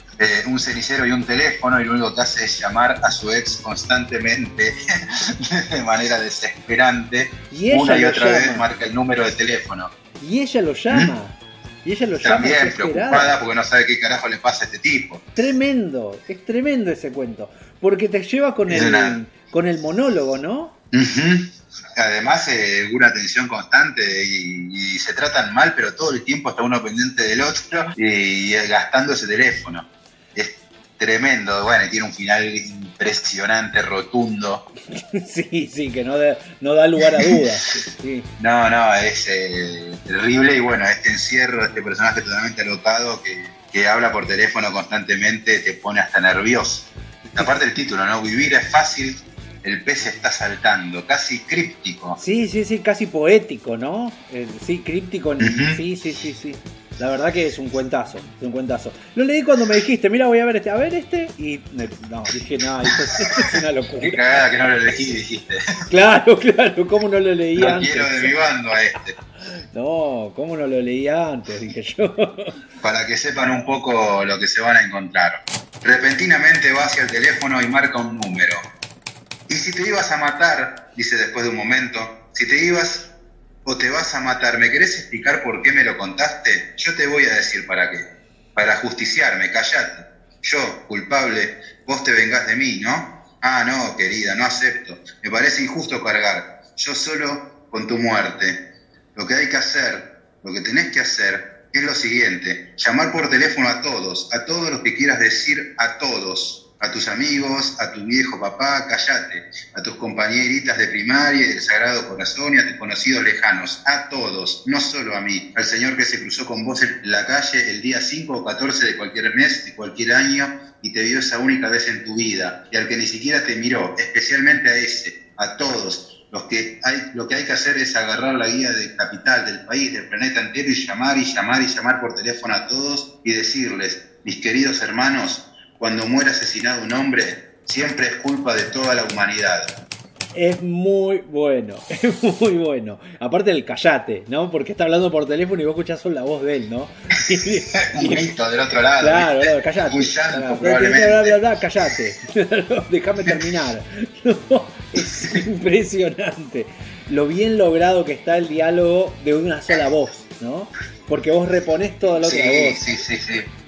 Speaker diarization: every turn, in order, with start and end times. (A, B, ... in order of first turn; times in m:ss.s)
0:00.2-0:09.9 A
0:07.5-0:08.7 B
0:10.2-0:13.4 B
0:12.2-0:15.2 A
0:15.4-0:20.8 B
0:18.7-0:19.2 A
0:20.9-0:34.6 A
0:34.9-0:38.3 B
0:38.4-0:52.2 A
0:52.2-1:04.4 B
0:55.4-0:55.8 A
1:04.0-1:05.9 A
1:05.9-1:08.3 B
1:07.6-1:09.2 A
1:09.7-1:12.6 B
1:12.8-1:18.6 A
1:19.5-1:23.1 A
1:23.6-2:19.8 A
2:20.4-2:28.2 B
2:27.7-2:31.4 A
2:29.0-2:42.8 B
2:42.2-2:43.5 A